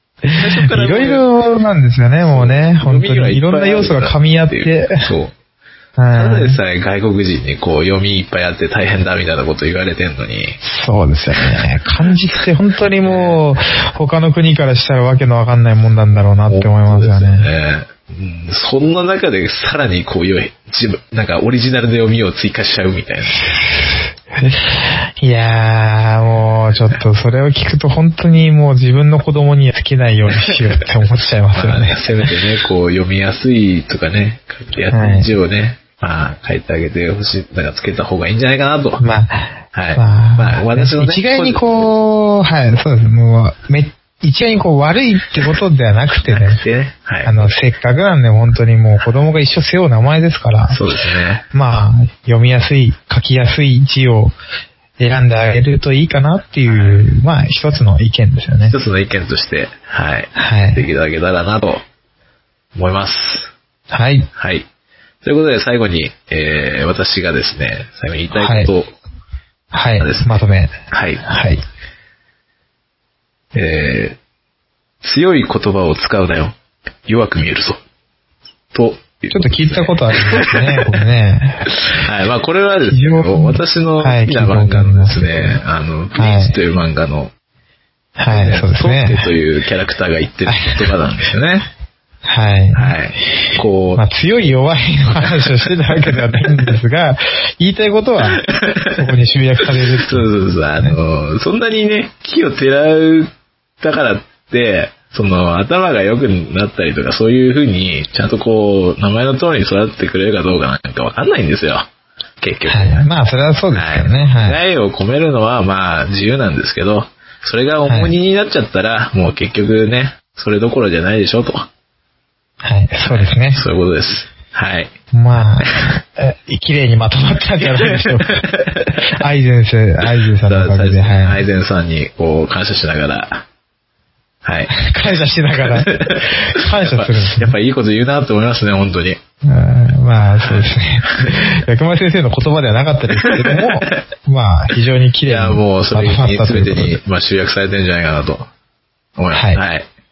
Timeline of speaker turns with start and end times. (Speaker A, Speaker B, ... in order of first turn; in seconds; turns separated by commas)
Speaker A: 0.2-5.1, Speaker B: 0.4-1.3, Speaker B: 2.2-5.3, Speaker A: 6.0-6.6, Speaker B: 6.1-10.6, Speaker A: 10.6-17.5, Speaker B: 11.4-11.7, Speaker B: 13.0-13.4, Speaker B: 16.5-23.5, Speaker A: 23.3-32.4, Speaker B: 26.7-27.0, Speaker B: 31.6-39.0, Speaker A: 34.9-35.3, Speaker A: 39.0-46.6, Speaker B: 39.7-41.9, Speaker B: 46.3-47.5, Speaker A: 47.2-50.8, Speaker B: 50.7-51.5, Speaker A: 51.5-54.3, Speaker A: 55.0-58.8, Speaker B: 56.7-57.1, Speaker B: 58.6-61.8, Speaker A: 60.4-60.9, Speaker B: 62.8-63.5, Speaker A: 63.9-64.3, Speaker B: 64.3-64.7, Speaker B: 65.2-68.9, Speaker A: 68.3-68.7, Speaker A: 69.7-71.6, Speaker B: 70.0-71.2, Speaker B: 73.5-74.2, Speaker B: 75.0-77.8, Speaker B: 78.7-81.0, Speaker A: 79.3-81.9, Speaker B: 81.7-87.3, Speaker A: 82.9-85.6, Speaker A: 86.2-86.6, Speaker A: 88.2-89.3, Speaker B: 88.3-91.7, Speaker A: 90.5-90.9, Speaker A: 92.2-93.0, Speaker B: 92.7-94.0, Speaker A: 94.0-101.0, Speaker B: 95.1-96.8, Speaker B: 98.3-111.9, Speaker B: 112.4-113.1, Speaker A: 112.7-114.6, Speaker B: 113.7-121.7, Speaker A: 117.9-118.1, Speaker A: 122.6-123.6, Speaker B: 123.1-124.9, Speaker A: 125.1-131.5, Speaker B: 125.6-125.9, Speaker B: 127.6-129.2, Speaker B: 130.2-133.4, Speaker B: 134.4-134.7, Speaker A: 134.7-137.6, Speaker B: 135.6-139.2, Speaker A: 139.4-147.0, Speaker B: 140.4-141.5, Speaker B: 143.2-144.0, Speaker B: 145.3-148.5, Speaker B: 149.2-149.9, Speaker A: 149.3-149.6